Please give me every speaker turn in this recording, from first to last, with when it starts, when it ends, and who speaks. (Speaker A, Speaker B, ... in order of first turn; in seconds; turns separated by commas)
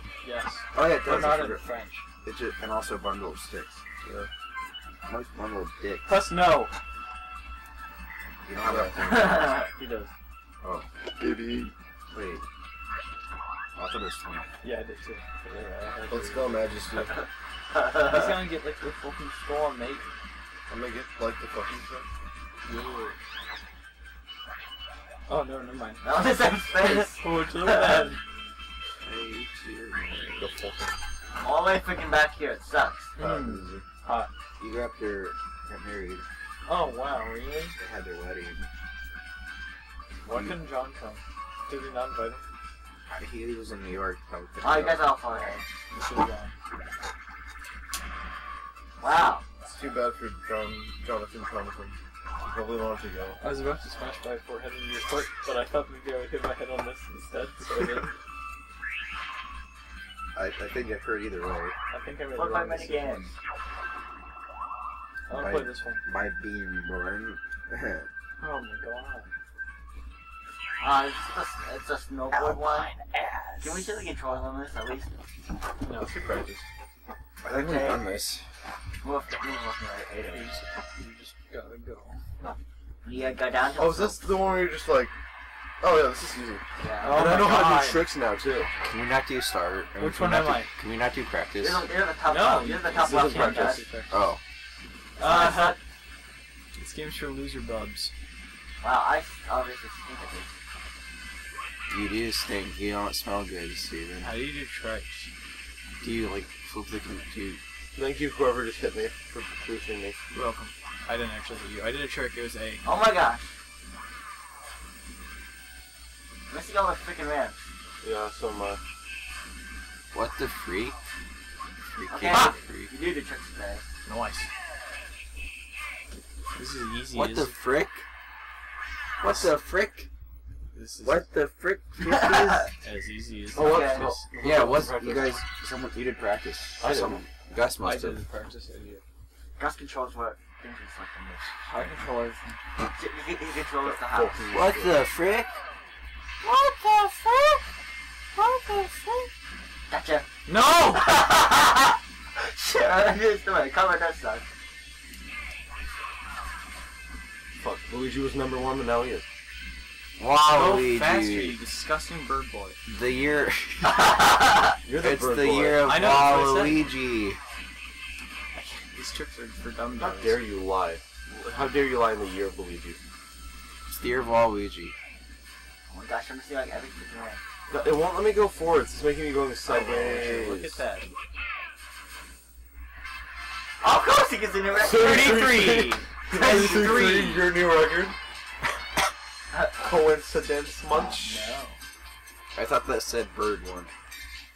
Speaker A: 0.2-2.0, Speaker B: 0.7-3.8, Speaker C: 4.0-4.3, Speaker B: 5.1-6.1, Speaker A: 6.1-6.7, Speaker B: 8.4-9.5, Speaker C: 8.6-9.1, Speaker D: 9.1-9.7, Speaker A: 9.7-10.1, Speaker B: 10.6-10.9, Speaker C: 11.2-11.7, Speaker B: 12.1-12.4, Speaker B: 13.8-14.5, Speaker A: 14.6-16.7, Speaker C: 16.1-17.2, Speaker D: 17.7-18.3, Speaker A: 17.9-20.1, Speaker C: 20.7-22.1, Speaker A: 22.6-23.2, Speaker A: 25.3-26.1, Speaker D: 26.0-28.1, Speaker A: 26.8-28.2, Speaker B: 29.0-30.5, Speaker C: 30.4-31.0, Speaker D: 31.4-33.2, Speaker C: 33.2-33.8, Speaker A: 33.2-34.3, Speaker B: 34.6-36.2, Speaker A: 36.6-37.8, Speaker B: 37.8-38.7, Speaker A: 40.2-42.5, Speaker B: 43.1-45.1, Speaker D: 44.6-45.6, Speaker A: 45.9-46.5, Speaker D: 49.0-49.5, Speaker C: 49.6-53.4, Speaker A: 53.4-58.1, Speaker B: 60.4-61.8, Speaker A: 61.9-63.3, Speaker D: 62.3-63.3, Speaker A: 65.3-66.0, Speaker B: 65.3-68.1, Speaker A: 68.4-69.3, Speaker D: 70.8-72.9, Speaker A: 72.3-74.1, Speaker D: 73.6-75.1, Speaker A: 75.8-76.1, Speaker C: 76.0-76.7, Speaker B: 77.4-78.5, Speaker D: 77.5-78.2, Speaker D: 79.0-80.5, Speaker A: 80.3-82.2, Speaker D: 83.0-84.2, Speaker C: 83.8-85.2, Speaker C: 85.8-88.7, Speaker D: 86.8-87.2, Speaker A: 87.0-88.0, Speaker B: 88.8-91.9, Speaker A: 90.0-90.7, Speaker D: 91.6-93.8, Speaker A: 92.2-94.2, Speaker C: 92.9-93.8, Speaker B: 94.1-94.4, Speaker D: 95.2-95.8, Speaker A: 95.2-95.8, Speaker A: 96.8-98.1, Speaker D: 98.8-100.6, Speaker B: 101.9-104.3, Speaker A: 104.2-105.3, Speaker B: 106.0-107.6, Speaker C: 108.0-110.2, Speaker A: 110.3-112.8, Speaker D: 112.8-113.5, Speaker D: 116.5-117.6, Speaker C: 118.0-118.8, Speaker B: 120.1-121.0, Speaker B: 121.9-122.9, Speaker D: 122.1-123.8, Speaker A: 124.0-124.5, Speaker A: 126.5-127.5, Speaker B: 127.1-128.1, Speaker B: 129.2-130.1, Speaker A: 129.2-129.5, Speaker A: 130.7-131.3, Speaker B: 131.0-132.7, Speaker D: 132.0-132.7, Speaker A: 132.8-134.3, Speaker C: 133.5-135.4, Speaker D: 133.6-134.1, Speaker B: 134.4-138.2, Speaker C: 136.8-137.2, Speaker A: 137.8-139.0, Speaker D: 139.6-141.7, Speaker A: 141.7-142.6, Speaker D: 142.9-144.4, Speaker C: 143.9-145.1, Speaker B: 144.5-145.6, Speaker A: 146.4-147.6, Speaker A: 148.3-149.3, Speaker D: 149.9-150.3, Speaker A: 150.5-151.1, Speaker D: 150.9-154.4, Speaker C: 157.6-159.3, Speaker B: 160.2-161.6, Speaker A: 160.5-162.8, Speaker B: 162.9-164.0, Speaker D: 163.9-164.7, Speaker C: 164.8-166.0, Speaker B: 165.0-167.4, Speaker A: 165.8-166.9, Speaker A: 168.5-170.4, Speaker C: 170.0-173.0, Speaker B: 173.9-174.9, Speaker D: 175.9-177.4, Speaker C: 177.7-180.8, Speaker A: 179.7-181.1, Speaker D: 183.8-185.6, Speaker C: 184.7-188.2, Speaker A: 184.9-187.5, Speaker D: 186.3-187.1, Speaker C: 189.7-191.5, Speaker A: 190.9-191.8, Speaker B: 192.6-193.9